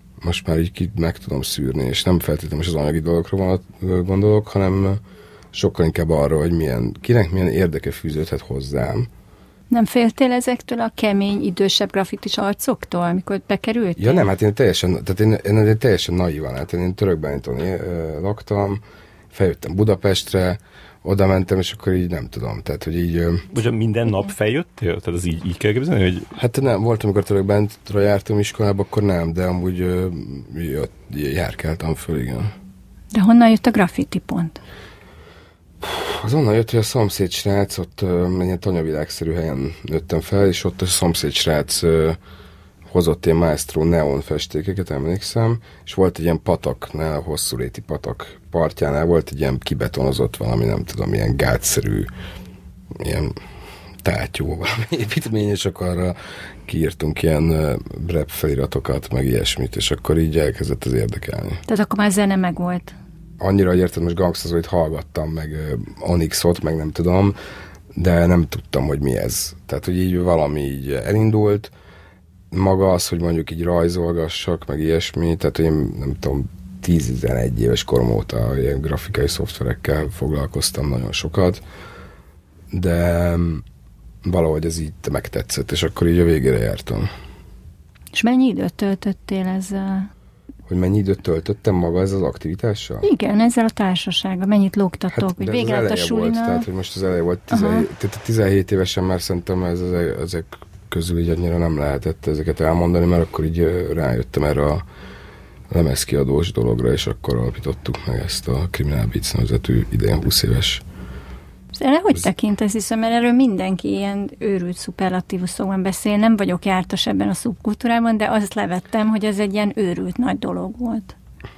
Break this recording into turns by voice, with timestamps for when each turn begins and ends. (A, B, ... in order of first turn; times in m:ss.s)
0:00.2-0:05.0 A
0:05.5-0:09.1 A
0:09.7-0:14.3 B
0:14.0-0:18.8 A
0:19.3-0:23.4 A
0:23.5-0:26.3 C
0:26.4-0:32.5 A
0:33.1-0:34.6 B
0:35.8-0:42.2 A
0:42.9-0:52.1 A
0:53.0-0:53.4 A
0:54.0-0:56.2 A
0:56.7-1:01.6 A
1:01.7-1:03.0 B
1:03.4-1:07.4 A
1:08.0-1:11.7 A
1:12.5-1:21.6 A
1:22.7-1:23.6 A
1:24.2-1:27.1 A
1:28.1-1:30.1 B
1:30.7-1:33.1 A
1:33.0-1:36.7 B
1:35.1-1:44.8 A
1:37.5-1:37.9 B
1:45.7-1:50.8 A
1:51.7-2:01.1 B